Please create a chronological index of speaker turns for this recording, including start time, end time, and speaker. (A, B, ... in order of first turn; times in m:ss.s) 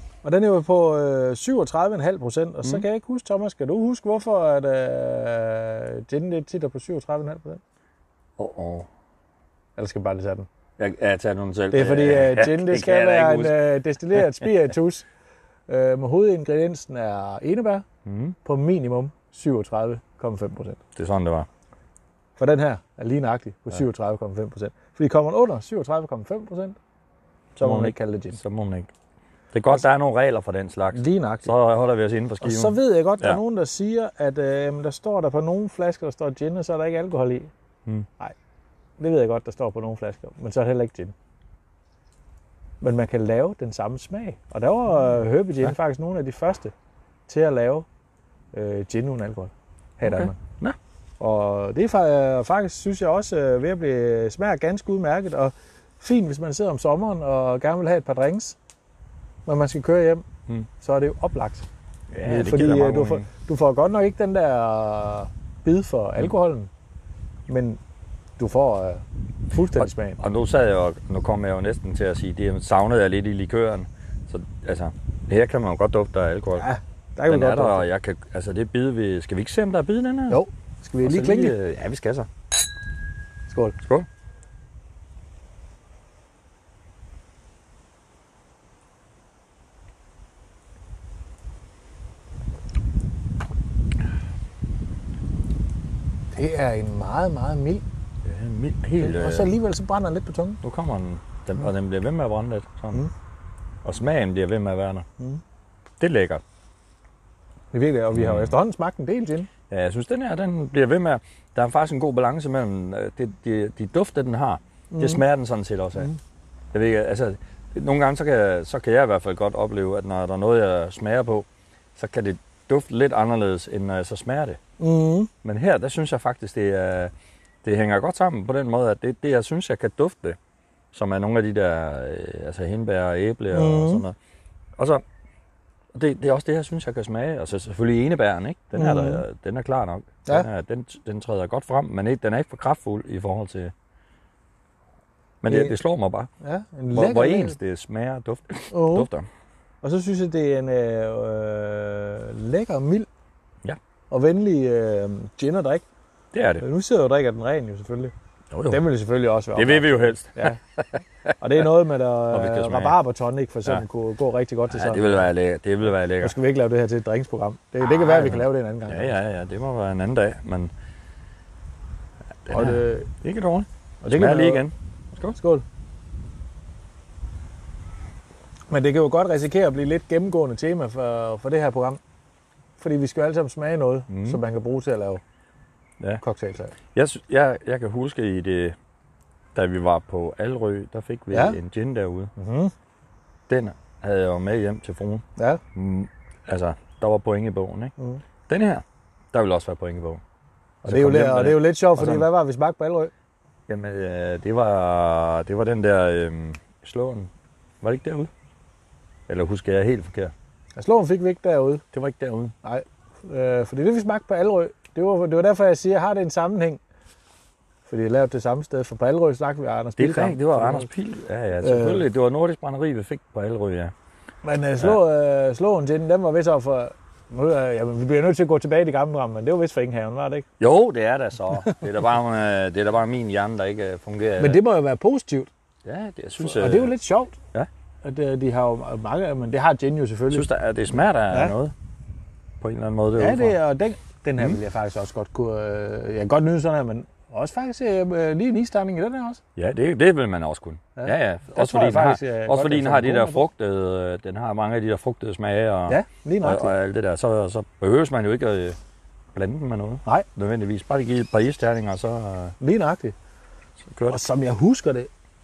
0:00.2-0:07.6 A
0:08.4-0:08.9 B
0:09.8-0:10.5 A
0:10.8-0:13.6 B
0:11.7-0:15.1 A
0:15.7-0:17.8 A
0:18.0-0:18.4 B
0:18.4-0:20.8 A
0:21.0-0:21.5 B
0:22.4-0:26.8 A
0:27.6-0:28.4 A
0:27.6-0:28.9 B
0:29.5-0:33.4 B
0:30.9-0:31.5 A
0:32.4-0:37.5 A
0:39.0-0:41.1 A
0:42.8-0:46.7 A
0:47.3-0:47.9 A
0:48.5-0:50.4 A
0:50.0-0:50.8 B
0:51.2-0:58.6 A
0:59.5-1:00.2 A
1:00.8-1:01.7 A
1:02.1-1:03.3 B
1:02.2-1:06.7 A
1:07.5-1:07.8 A
1:08.4-1:10.2 A
1:09.8-1:16.7 B
1:16.6-1:17.9 A
1:17.3-1:20.4 B
1:20.3-1:21.6 A
1:21.0-1:22.3 B
1:23.5-1:23.8 A
1:23.8-1:24.1 B
1:36.3-1:37.8 A
1:38.2-1:39.5 B
1:39.0-1:40.6 A
1:40.6-1:43.1 B
1:43.8-1:45.1 B
1:46.0-1:46.4 B
1:47.7-1:49.5 A
1:48.1-1:48.6 B
1:49.7-1:56.1 B
1:54.9-1:55.2 A
1:56.7-2:04.6 B
2:04.8-2:05.3 A
2:05.4-2:07.1 B
2:07.6-2:10.4 B
2:10.9-2:14.2 B
2:13.5-2:14.0 A
2:14.8-2:15.0 B
2:15.9-2:23.7 B
2:18.7-2:19.2 A
2:25.4-2:26.3 B
2:25.5-2:25.7 A
2:26.4-2:27.6 A
2:26.9-2:29.3 B
2:28.7-2:29.1 A
2:29.8-2:33.1 A
2:34.1-2:35.8 A
2:36.3-2:36.6 B
2:36.6-2:38.1 A
2:38.5-2:38.8 B
2:38.7-2:40.6 A
2:39.6-2:41.4 B
2:41.4-2:45.3 A
2:42.3-2:43.0 B
2:44.7-2:46.4 B
2:46.2-2:49.2 A
2:47.8-2:50.7 B
2:52.5-2:55.4 B
2:52.5-2:53.1 A
2:54.0-2:54.6 A
2:55.4-2:55.6 A
2:58.7-3:02.0 A
3:02.8-3:05.2 A
3:04.1-3:04.4 B
3:06.2-3:06.8 A
3:06.9-3:08.8 B
3:09.6-3:12.3 B
3:11.3-3:11.6 A
3:12.4-3:12.7 A
3:13.5-3:15.2 B
3:15.4-3:15.6 A
3:15.8-3:17.9 B
3:18.5-3:20.2 B
3:20.8-3:23.1 A
3:20.8-3:22.3 B
3:23.7-3:28.3 B
3:29.3-3:30.3 B
3:30.8-3:31.8 A
3:31.9-3:32.5 B
3:32.6-3:36.8 A
3:37.9-3:40.9 A
3:40.0-3:43.9 B
3:41.6-3:42.1 A
3:44.4-3:50.5 A
3:50.6-3:54.6 B
3:54.4-3:55.5 A
3:55.8-3:56.9 B
3:56.4-3:57.4 A
3:58.0-4:00.5 A
4:00.3-4:01.7 B
4:01.3-4:01.6 A
4:02.6-4:03.6 B
4:03.2-4:09.4 A
4:09.6-4:18.8 B
4:11.0-4:13.4 A
4:15.9-4:16.7 A
4:19.4-4:22.6 B
4:22.6-4:23.2 A
4:23.9-4:24.2 B
4:24.1-4:25.1 A